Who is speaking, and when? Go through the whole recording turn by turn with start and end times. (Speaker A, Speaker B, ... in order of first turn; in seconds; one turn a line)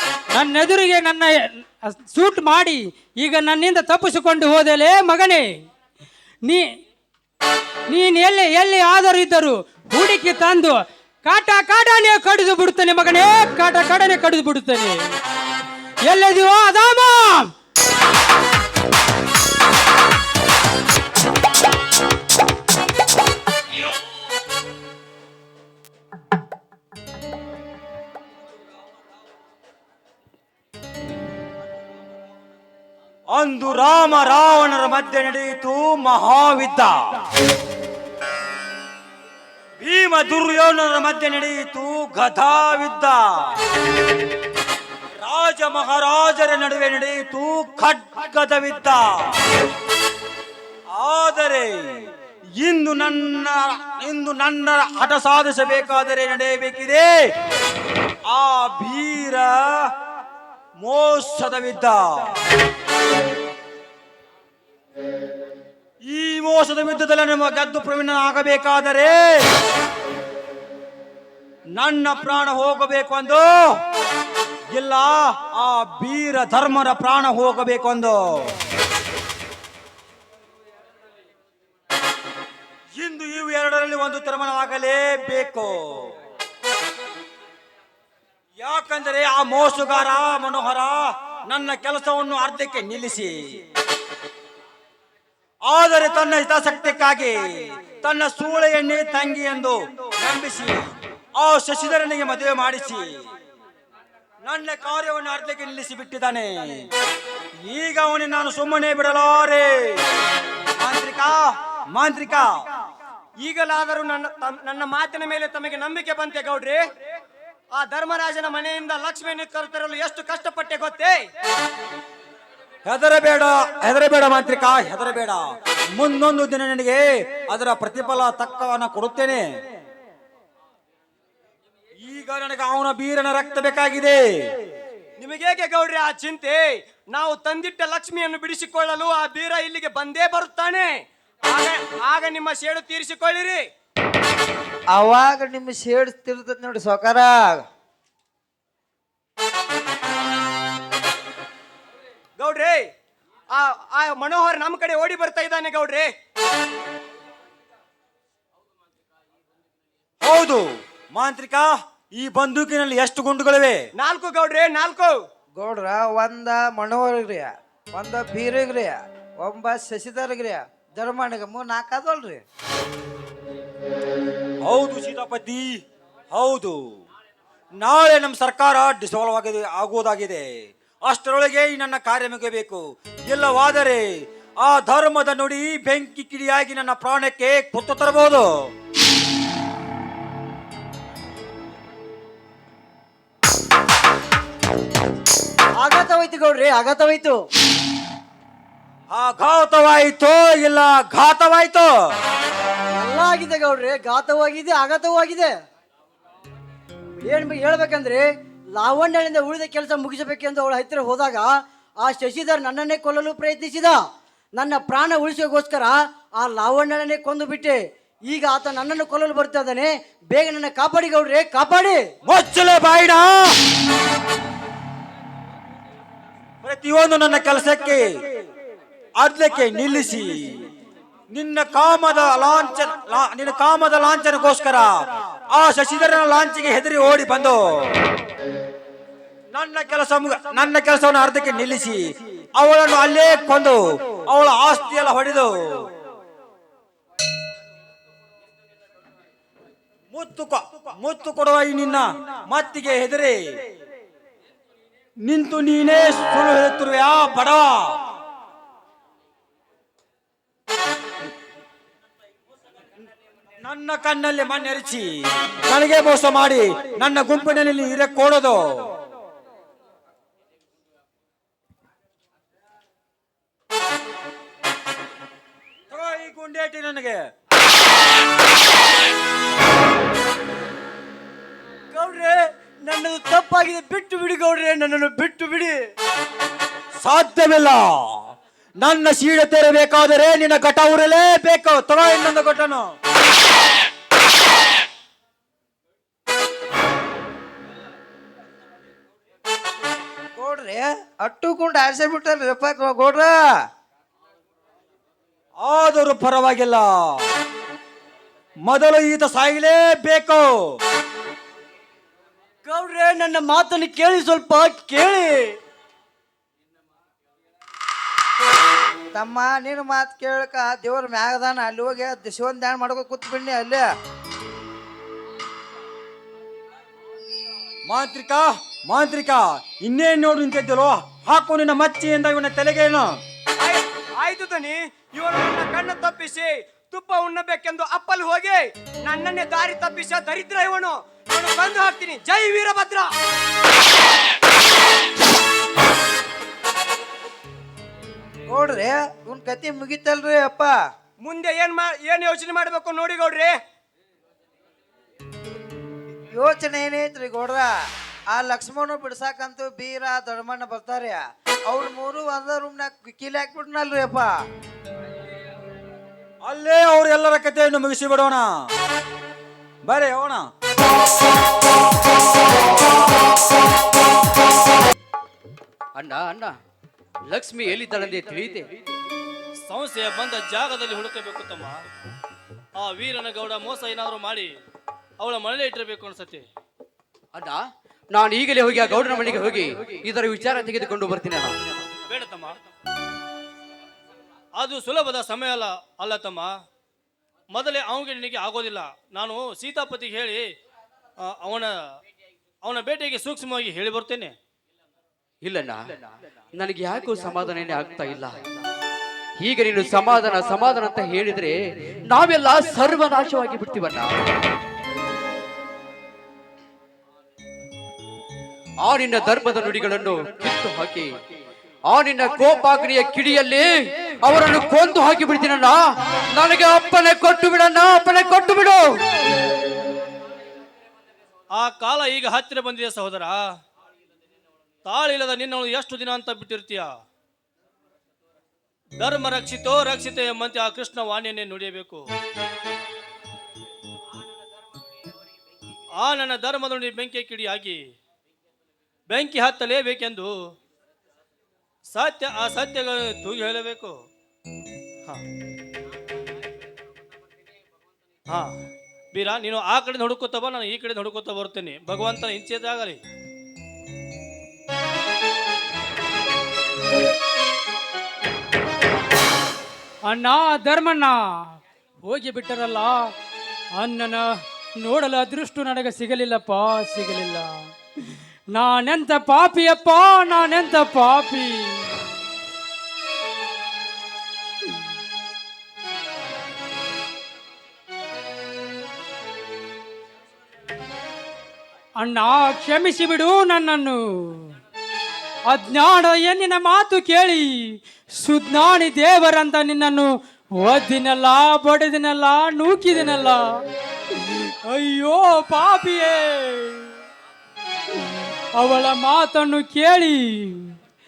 Speaker A: 0.3-5.5
Speaker A: 7.9-15.0
Speaker A: 16.1-17.5
Speaker B: 33.3-37.0
Speaker B: 39.8-43.2
Speaker B: 45.2-49.5
Speaker B: 50.9-57.1
Speaker B: 58.2-59.9
Speaker B: 60.8-62.3
Speaker B: 66.0-69.5
Speaker B: 71.8-73.8
Speaker B: 74.7-78.5
Speaker B: 83.0-86.1
Speaker B: 88.6-93.4
Speaker B: 95.7-103.2
Speaker B: 104.4-106.9
Speaker B: 107.7-110.0
Speaker B: 110.8-112.5
Speaker C: 113.4-116.9
Speaker C: 117.7-121.3
Speaker B: 122.8-125.4
Speaker B: 125.9-129.4
Speaker B: 132.0-134.2
Speaker C: 135.2-143.7
Speaker D: 144.9-147.6
Speaker C: 152.4-152.9
Speaker C: 153.5-156.1
Speaker B: 160.2-163.8
Speaker C: 164.0-165.2
Speaker D: 165.6-172.4
Speaker B: 174.6-175.7
Speaker B: 176.3-176.8
Speaker B: 177.8-180.5
Speaker B: 181.1-184.0
Speaker B: 184.6-188.5
Speaker E: 195.8-197.4
Speaker B: 199.1-201.9
Speaker E: 202.9-205.5
Speaker E: 207.2-208.2
Speaker E: 208.8-211.5
Speaker E: 212.0-214.0
Speaker E: 214.6-222.0
Speaker B: 222.2-223.6
Speaker B: 226.6-228.1
Speaker B: 229.2-230.7
Speaker B: 231.3-234.9
Speaker B: 235.5-237.9
Speaker B: 239.5-245.9
Speaker B: 250.1-253.4
Speaker B: 255.2-258.0
Speaker B: 263.6-268.9
Speaker B: 275.9-277.2
Speaker E: 281.9-285.8
Speaker B: 287.0-288.2
Speaker B: 288.8-292.9
Speaker D: 300.4-303.4
Speaker B: 305.6-307.2
Speaker B: 308.6-310.5
Speaker E: 312.6-315.5
Speaker D: 319.1-323.9
Speaker B: 327.9-333.2
Speaker C: 333.6-343.1
Speaker D: 348.5-350.7
Speaker C: 351.2-353.6
Speaker D: 356.4-357.7
Speaker D: 358.3-364.3
Speaker B: 366.4-368.5
Speaker B: 369.8-370.5
Speaker F: 375.9-376.6
Speaker F: 377.3-378.7
Speaker G: 379.6-381.8
Speaker G: 382.8-384.5
Speaker G: 385.2-386.4
Speaker F: 387.3-391.8
Speaker G: 392.1-392.6
Speaker G: 394.6-396.5
Speaker G: 397.5-400.5
Speaker G: 401.2-401.7
Speaker G: 402.6-404.3
Speaker F: 405.4-405.8
Speaker F: 406.6-408.4
Speaker F: 409.4-411.6
Speaker F: 412.1-414.1
Speaker F: 418.8-421.1
Speaker F: 421.9-429.0
Speaker G: 431.5-433.4
Speaker G: 434.9-436.9
Speaker G: 439.0-442.0
Speaker G: 446.0-447.8
Speaker G: 449.1-450.3
Speaker G: 451.9-453.9
Speaker G: 459.1-463.0
Speaker A: 470.1-471.2
Speaker A: 472.0-473.1
Speaker A: 473.8-477.6
Speaker A: 478.5-481.9
Speaker A: 492.0-494.5
Speaker A: 495.5-503.4
Speaker A: 504.1-506.9
Speaker A: 508.6-510.7